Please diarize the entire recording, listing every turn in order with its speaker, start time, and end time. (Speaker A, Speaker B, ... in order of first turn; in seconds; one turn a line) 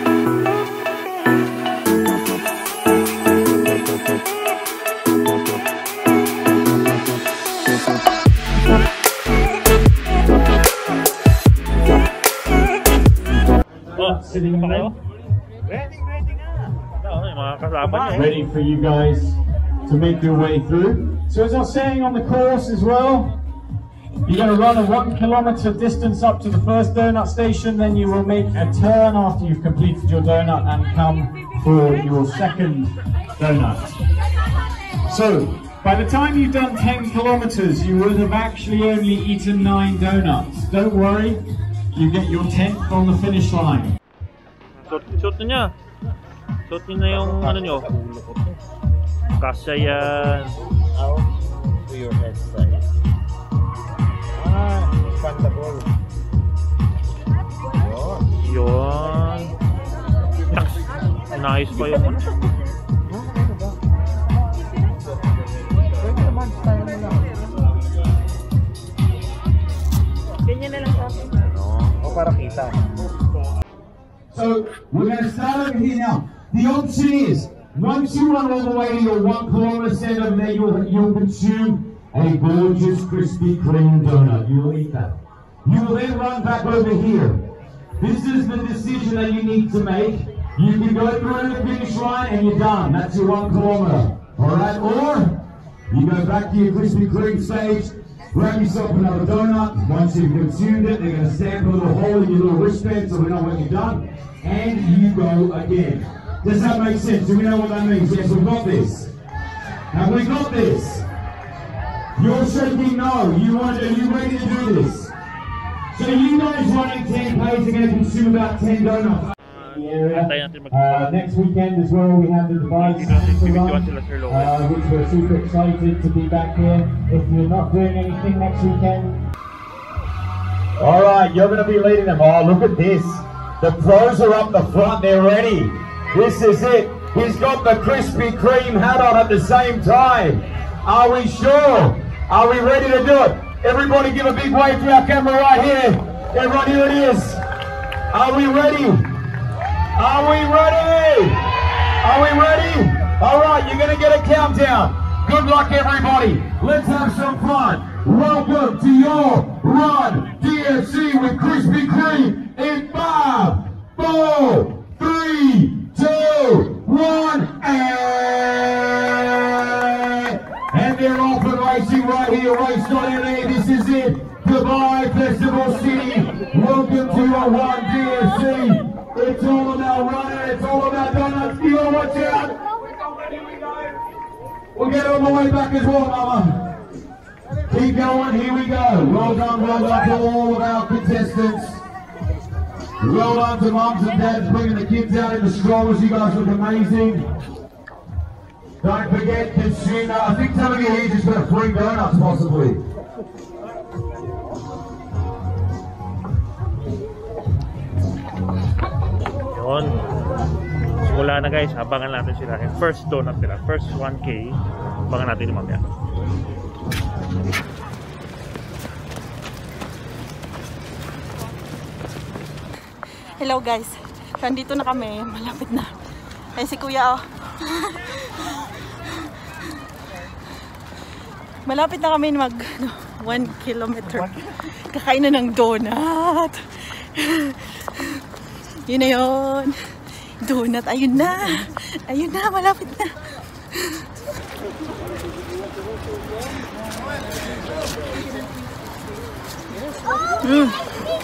Speaker A: 13.8-14.9
Speaker B: 13.9-14.9
Speaker B: 17.0-18.3
Speaker A: 18.1-23.3
Speaker A: 24.2-34.0
Speaker A: 35.1-41.4
Speaker A: 41.9-43.9
Speaker B: 44.8-45.7
Speaker B: 46.7-47.9
Speaker C: 47.1-48.6
Speaker B: 49.4-50.5
Speaker C: 50.9-51.3
Speaker C: 51.9-52.8
Speaker C: 54.4-55.9
Speaker C: 57.8-58.2
Speaker B: 58.4-59.5
Speaker B: 60.5-62.2
Speaker D: 61.7-62.6
Speaker C: 63.0-63.8
Speaker C: 66.0-67.3
Speaker D: 70.4-71.5
Speaker B: 71.4-72.0
Speaker C: 72.0-72.9
Speaker A: 74.3-87.4
Speaker A: 88.0-95.4
Speaker A: 95.9-109.1
Speaker A: 109.9-111.0
Speaker A: 112.2-115.1
Speaker A: 115.9-129.2
Speaker B: 119.6-121.2
Speaker B: 122.8-124.6
Speaker A: 130.8-147.4
Speaker A: 148.1-149.1
Speaker A: 149.9-151.4
Speaker A: 152.0-184.0
Speaker A: 184.7-186.6
Speaker A: 187.7-191.8
Speaker A: 193.0-197.3
Speaker A: 198.8-202.8
Speaker B: 209.5-210.0
Speaker B: 211.0-215.8
Speaker D: 223.4-225.9
Speaker D: 226.6-229.1
Speaker D: 231.7-238.2
Speaker D: 238.8-239.8
Speaker D: 240.4-244.1
Speaker D: 250.4-250.8